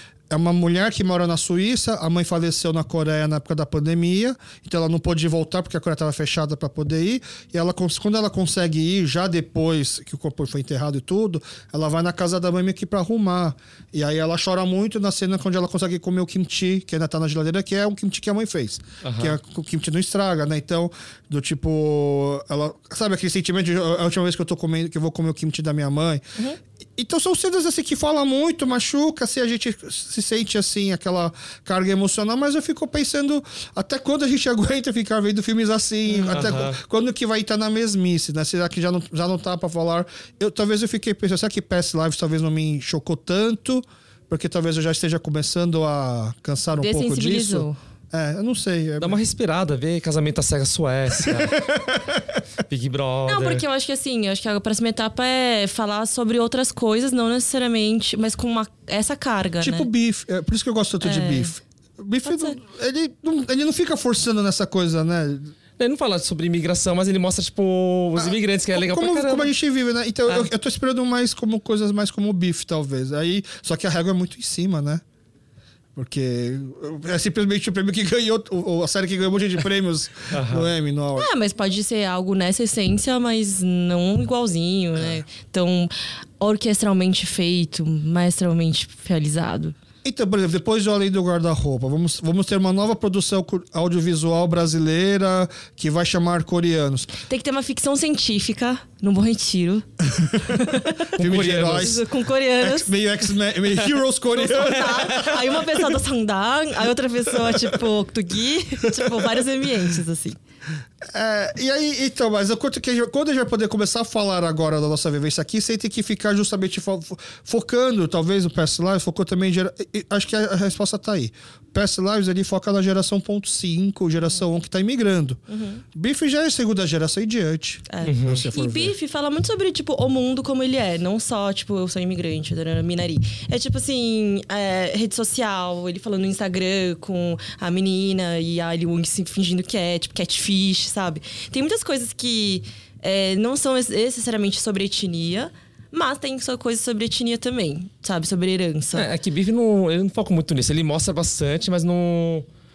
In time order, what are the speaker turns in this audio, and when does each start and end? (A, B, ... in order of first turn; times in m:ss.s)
0:00.3-0:26.2 A
0:19.0-0:19.4 B
0:27.0-0:49.2 A
0:36.1-0:36.5 C
0:36.3-0:36.8 B
0:46.8-0:47.8 C
0:49.0-0:51.7 B
0:51.1-0:52.2 A
0:52.7-0:53.6 B
0:53.3-0:59.9 C
0:59.6-1:05.5 A
1:01.0-1:01.5 C
1:02.2-1:02.6 C
1:05.8-1:09.5 B
1:08.2-1:15.0 A
1:15.9-1:21.3 A
1:20.3-1:20.7 B
1:21.2-1:29.8 C
1:25.0-1:25.2 A
1:30.0-1:37.1 A
1:37.3-1:42.9 C
1:40.2-1:40.6 A
1:41.1-1:42.0 A
1:41.2-1:42.0 B
1:42.6-1:45.7 A
1:44.3-1:50.4 C
1:44.8-1:45.3 B
1:48.9-1:49.2 A
1:51.0-2:05.4 A
2:05.5-2:05.8 C
2:05.9-2:08.9 A
2:07.9-2:29.1 C
2:08.0-2:08.5 B
2:28.9-2:32.4 B